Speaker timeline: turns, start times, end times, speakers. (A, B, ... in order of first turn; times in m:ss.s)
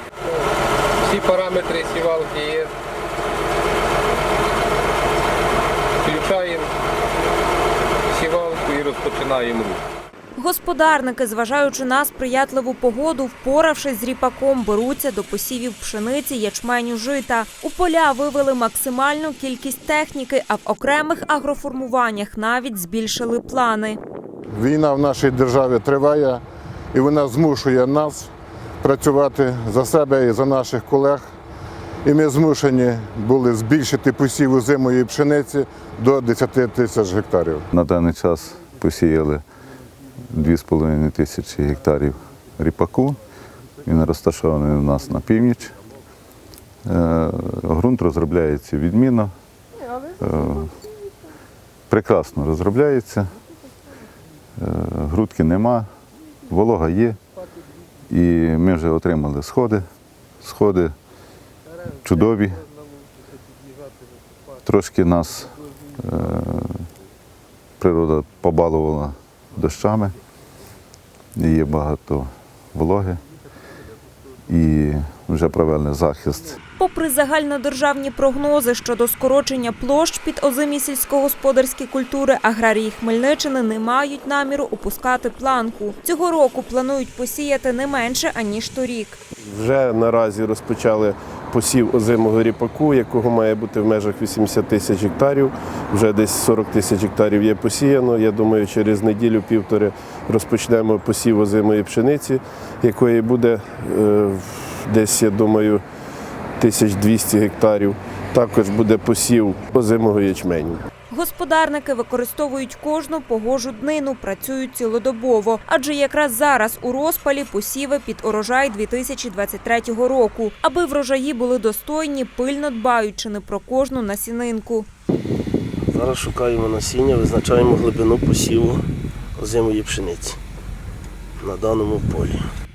0:01.0-0:02.7 A
0:06.0-0:06.7 A
0:08.1-0:09.8 A
0:10.4-0:24.0 B
0:24.6-0:26.4 C
0:26.9-0:28.3 C
0:28.8-0:31.2 C
0:32.0-0:37.7 C
0:37.7-0:39.4 D
0:40.3-0:43.2 D
0:43.8-0:45.8 D
0:46.9-0:49.3 D
0:50.1-0:50.8 D
0:51.9-0:53.4 D
0:54.6-0:55.9 D
0:56.5-0:57.2 D
0:58.1-0:59.9 D
1:00.4-1:01.0 D
1:02.0-1:02.6 D
1:04.6-1:06.9 D
1:07.8-1:10.2 D
1:11.4-1:13.2 D
1:14.5-1:16.6 D
1:16.8-1:29.2 B
1:29.4-1:45.8 E
1:46.6-1:50.8 E
1:51.1-2:04.9 B
2:05.9-2:08.8 F
2:09.4-2:10.4 F
2:11.4-2:12.4 F